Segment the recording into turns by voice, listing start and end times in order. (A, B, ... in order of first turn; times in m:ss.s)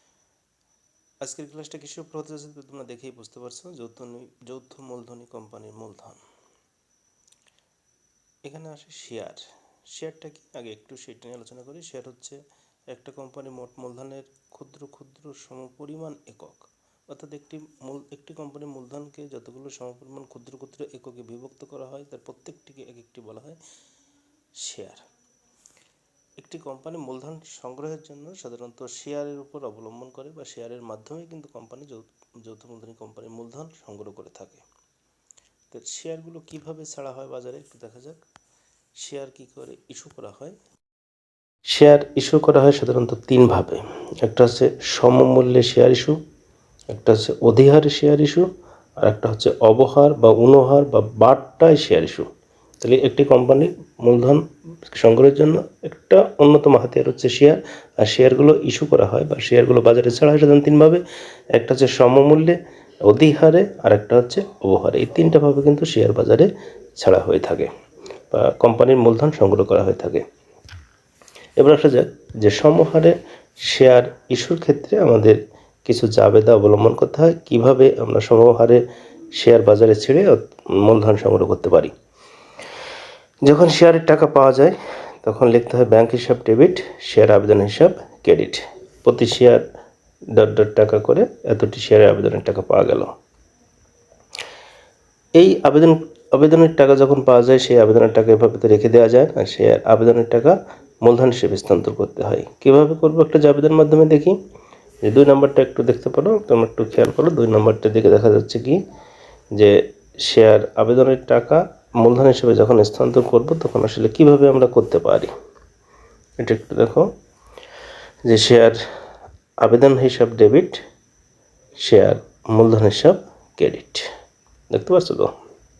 0:01.2-0:06.2 A
0:08.4-0:09.4 A
0:09.9-0:12.4 A
0:12.9-0:23.6 A
0:24.6-0:25.0 A
0:26.4-0:34.6 A
0:35.7-0:38.2 A
0:39.0-0:40.5 A
0:41.7-0:46.2 A
0:46.9-0:48.5 A
0:49.0-0:52.3 A
0:52.8-1:01.0 A
1:01.6-1:07.7 A
1:08.3-1:10.2 A
1:11.6-1:18.8 A
1:19.3-1:21.9 A
1:23.4-1:29.6 A
1:30.3-1:33.1 A
1:35.4-1:44.4 A
1:45.0-1:48.8 A
1:49.6-1:55.3 A
1:56.4-1:57.1 A
1:58.3-1:58.8 A
1:59.6-2:00.8 A
2:01.8-2:04.0 A
2:04.7-2:05.3 A